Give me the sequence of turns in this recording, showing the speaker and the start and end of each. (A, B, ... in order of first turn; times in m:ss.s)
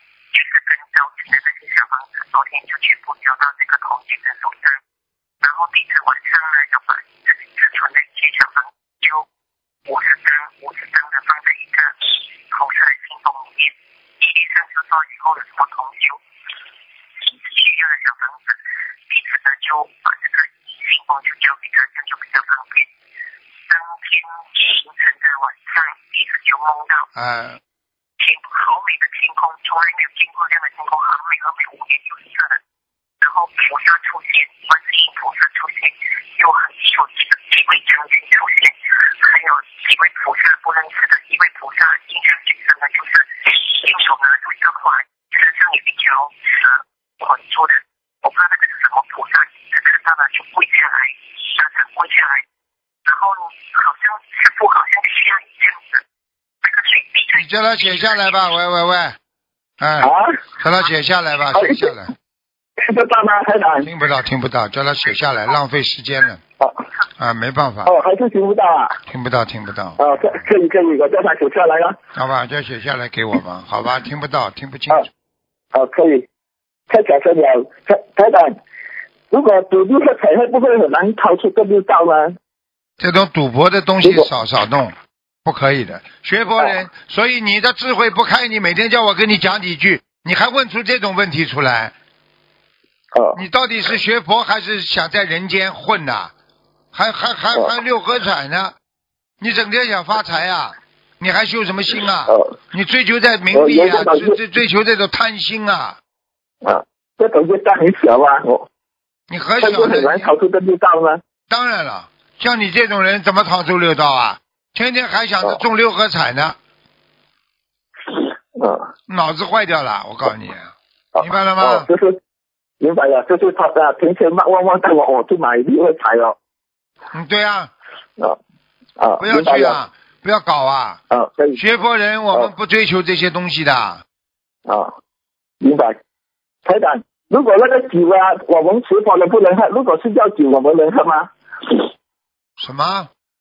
0:00.3-0:04.8 A
0:05.4-0:09.2 A
0:09.9-0:16.2 A
0:17.2-0:22.9 A
0:23.7-0:27.1 A
0:27.2-0:27.6 B
0:28.2-0:32.6 A
0:33.2-0:52.4 A
0:53.1-0:56.0 A
0:56.6-0:58.4 A
0:57.3-0:59.2 B
0:59.8-1:02.1 B
1:00.0-1:00.4 C
1:01.5-1:01.8 C
1:02.8-1:03.9 C
1:03.8-1:06.4 B
1:07.2-1:08.0 B
1:07.8-1:09.0 C
1:09.1-1:10.5 B
1:10.0-1:12.0 C
1:12.2-1:15.1 B
1:15.7-1:16.2 C
1:16.9-1:18.6 C
1:19.3-1:22.4 C
1:23.0-1:31.9 B
1:33.1-1:33.4 C
1:33.4-1:36.3 B
1:36.9-1:38.8 B
1:39.4-1:46.0 B
1:42.3-1:42.5 C
1:43.5-1:44.4 C
1:46.6-1:48.6 C
1:49.3-1:50.3 B
1:49.6-1:51.2 C
1:51.5-1:56.6 B
1:58.1-1:58.9 C
1:59.1-2:01.9 B
2:01.2-2:02.2 C
2:02.8-2:06.4 C
2:07.1-2:07.7 B
2:09.0-2:09.8 C
2:09.2-2:11.0 B
2:11.1-2:11.6 C
2:11.5-2:14.0 B
2:14.6-2:14.9 C
2:15.6-2:16.0 C
2:16.6-2:21.9 C
2:22.6-2:23.1 B